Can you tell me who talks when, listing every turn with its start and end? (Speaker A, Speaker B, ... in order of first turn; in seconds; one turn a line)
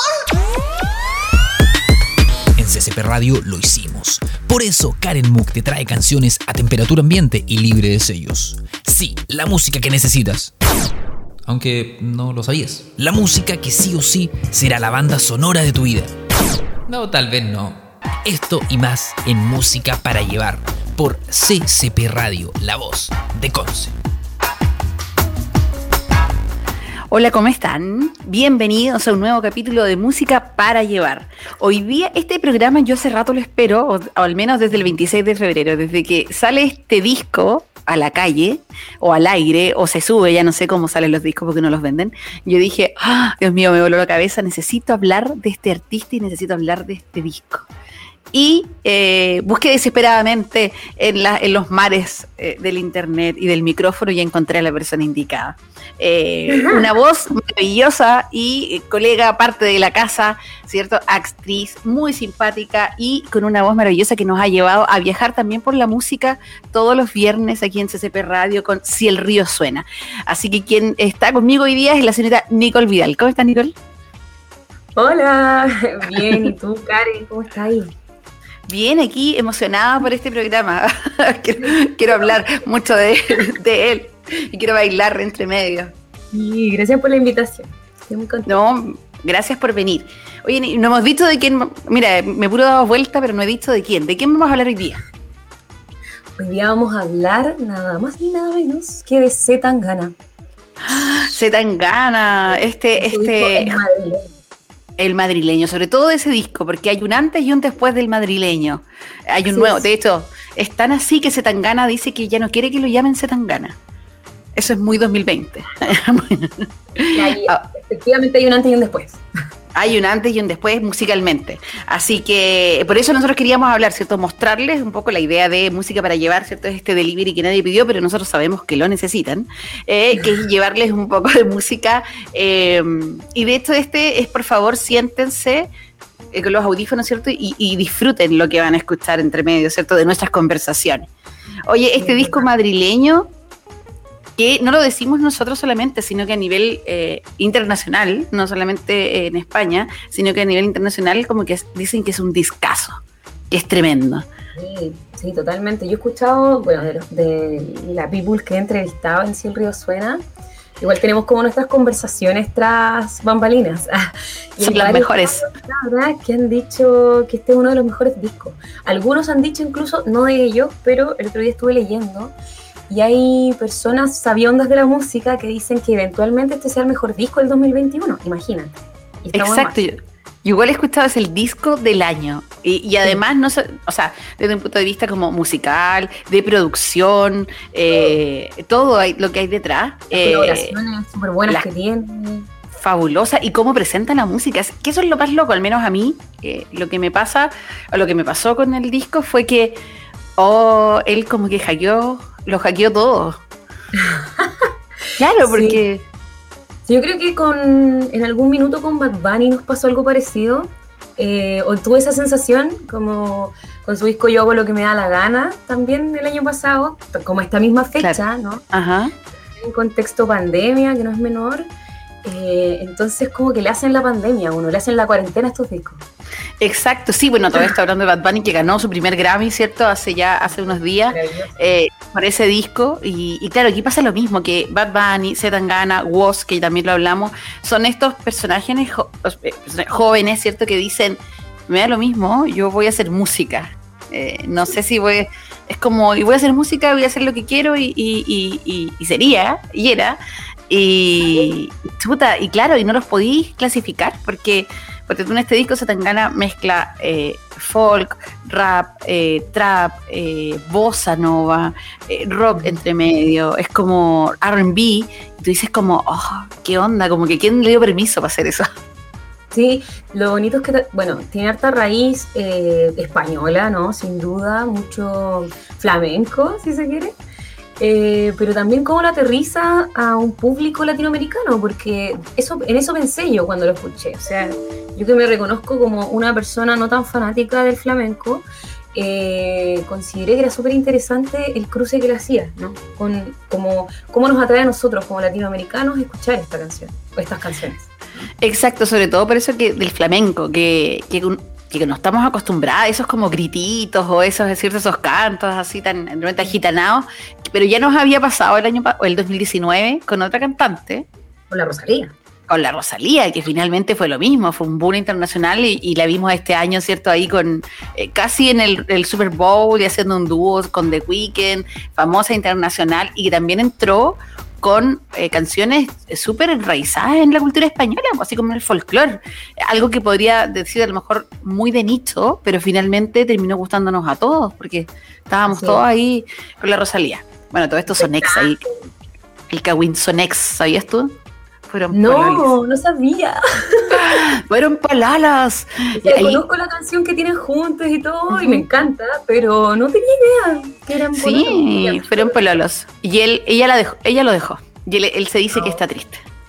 Speaker A: 2.5-10.5
Speaker A: 11.4-16.1
Speaker A: 16.9-23.9
Speaker B: 27.1-47.7
Speaker B: 48.3-73.7
Speaker C: 56.5-56.8
Speaker C: 75.0-77.9
Speaker B: 78.7-85.9
Speaker C: 81.6-82.3
Speaker C: 86.3-88.5
Speaker B: 88.5-95.0
Speaker C: 96.4-100.1
Speaker B: 100.8-103.8
Speaker C: 100.9-101.3
Speaker C: 102.5-104.3
Speaker B: 105.0-113.8
Speaker C: 109.4-109.8
Speaker B: 114.5-117.6
Speaker C: 117.1-119.2
Speaker B: 119.7-135.7
Speaker B: 136.3-141.1
Speaker B: 141.7-143.3
Speaker C: 142.0-142.5
Speaker B: 144.4-153.0
Speaker B: 153.5-154.2
Speaker C: 154.6-160.2
Speaker C: 160.8-172.3
Speaker B: 164.6-165.4
Speaker C: 172.9-179.9
Speaker B: 179.3-190.7
Speaker C: 190.1-192.5
Speaker B: 192.8-199.8
Speaker B: 200.4-203.4
Speaker C: 203.9-204.7
Speaker B: 205.2-206.0
Speaker C: 205.4-205.8
Speaker C: 206.9-218.6
Speaker B: 218.7-219.1
Speaker C: 219.5-221.7
Speaker C: 222.2-226.0
Speaker B: 226.6-250.2
Speaker C: 230.4-231.5
Speaker B: 250.7-268.7
Speaker C: 269.5-277.1
Speaker C: 277.8-298.3
Speaker B: 298.4-311.1
Speaker C: 311.5-312.1
Speaker B: 312.5-338.6
Speaker C: 335.5-335.8
Speaker C: 337.9-338.7
Speaker B: 339.5-341.1
Speaker B: 341.7-342.5
Speaker C: 341.9-344.2
Speaker B: 343.9-346.4
Speaker C: 345.9-352.4
Speaker B: 348.3-348.7
Speaker B: 351.1-356.2
Speaker C: 355.5-355.8